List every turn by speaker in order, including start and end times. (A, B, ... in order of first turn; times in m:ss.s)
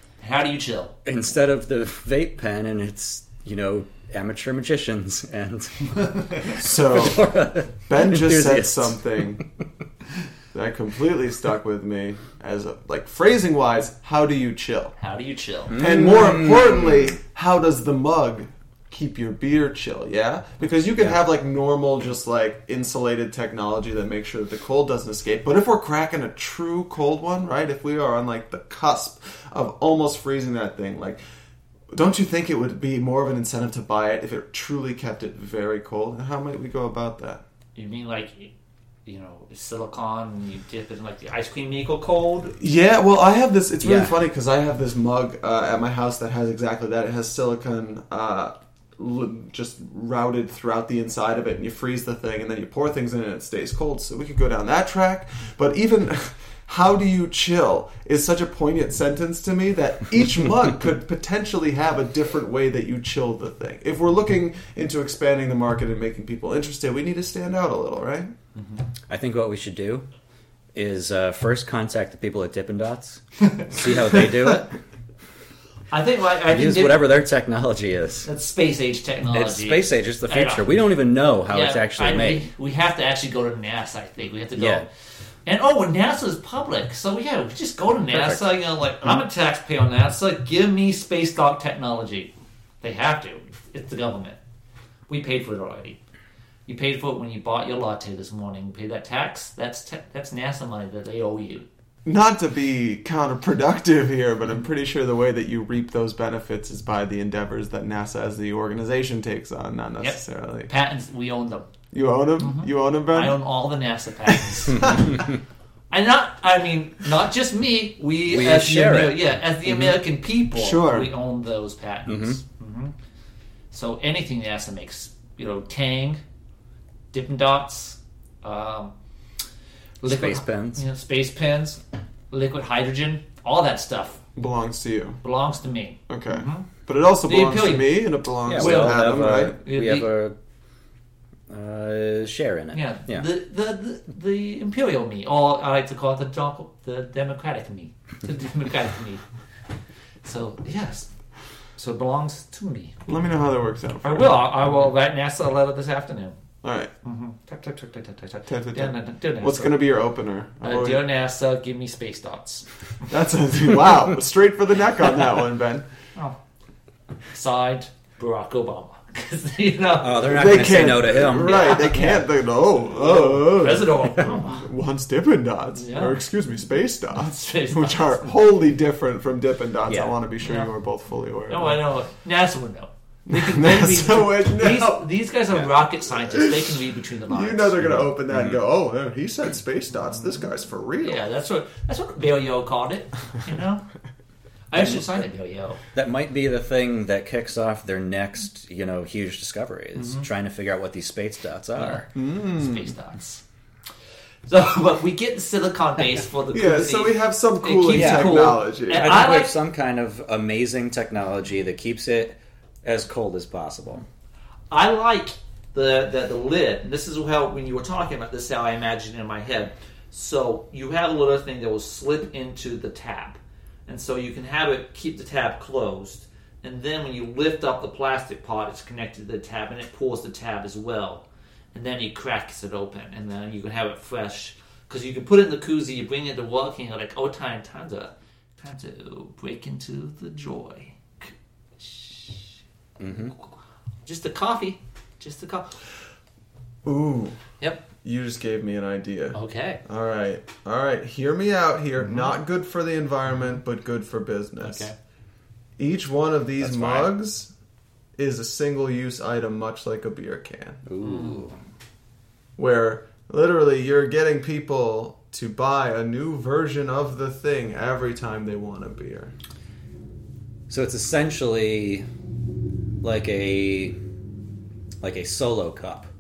0:00.2-0:01.0 A
0:01.0-0:09.5 B
0:06.5-0:07.3 C
0:07.9-0:09.4 C
0:10.5-0:15.0 C
0:15.0-0:15.8 A
0:15.7-0:17.2 B
0:15.8-0:31.2 C
0:31.9-0:37.4 C
0:37.8-0:38.5 A
0:39.1-0:42.6 A
0:42.6-1:08.3 C
0:43.8-0:44.1 B
1:08.6-1:08.8 A
1:09.1-1:10.1 B
1:10.7-1:14.8 B
1:15.9-1:17.0 A
1:16.5-1:18.3 B
1:18.2-1:20.6 A
1:19.3-1:22.5 B
1:21.5-1:24.9 A
1:24.6-1:24.9 B
1:25.5-1:34.4 A
1:28.1-1:28.4 B
1:35.1-1:36.0 A
1:36.7-1:41.7 A
1:42.0-1:50.7 C
1:50.0-1:51.7 A
1:51.9-1:53.4 C
1:52.4-1:55.2 A
1:55.9-2:02.9 A
1:58.3-1:59.9 B
2:00.5-2:01.1 C
2:02.1-2:02.4 B
2:03.7-2:06.2 A
2:07.1-2:08.9 A
2:10.0-2:11.8 A
2:10.0-2:10.8 B
2:12.3-2:14.2 A
2:14.4-2:15.2 C
2:15.2-2:16.7 A
2:16.1-2:19.6 C
2:17.2-2:20.1 A
2:18.5-2:20.4 B
2:21.5-2:23.3 B
2:22.7-2:29.2 A
2:30.2-2:31.1 A
2:31.8-2:33.1 A
2:33.1-2:34.4 C
2:34.0-2:36.4 A
2:36.6-2:36.9 C
2:37.0-2:39.8 A
2:38.5-2:41.0 C
2:40.6-2:42.7 A
2:43.1-2:45.8 C
2:47.3-2:50.5 A
2:50.0-2:52.2 B
2:50.2-3:01.8 C
2:51.4-2:52.2 A
2:52.9-2:54.7 A
2:55.8-2:56.2 A
2:57.1-2:58.3 A
2:59.9-3:00.2 B
3:00.4-3:00.7 A
3:01.5-3:08.1 A
3:03.3-3:05.1 C
3:06.2-3:06.7 C
3:07.3-3:11.2 C
3:08.3-3:08.6 B
3:11.0-3:13.8 A
3:14.7-3:15.8 A
3:15.9-3:22.1 B
3:20.0-3:20.3 A
3:21.8-3:23.4 A
3:22.2-3:22.9 C
3:24.5-3:29.6 A
3:26.5-3:29.2 C
3:27.9-3:34.0 B
3:34.7-4:02.6 A
4:03.0-4:03.3 B
4:04.1-4:05.8 A
4:06.8-4:07.4 C
4:07.6-4:07.8 A
4:08.0-4:14.9 C
4:09.3-4:09.8 A
4:12.0-4:12.3 A
4:14.7-4:14.9 A
4:15.8-4:17.5 C
4:16.6-4:17.1 B
4:18.2-4:20.8 C
4:20.9-4:21.6 B
4:21.0-4:21.5 A
4:22.6-4:29.3 C
4:30.7-4:32.1 B
4:33.0-4:34.0 B
4:35.0-4:36.1 B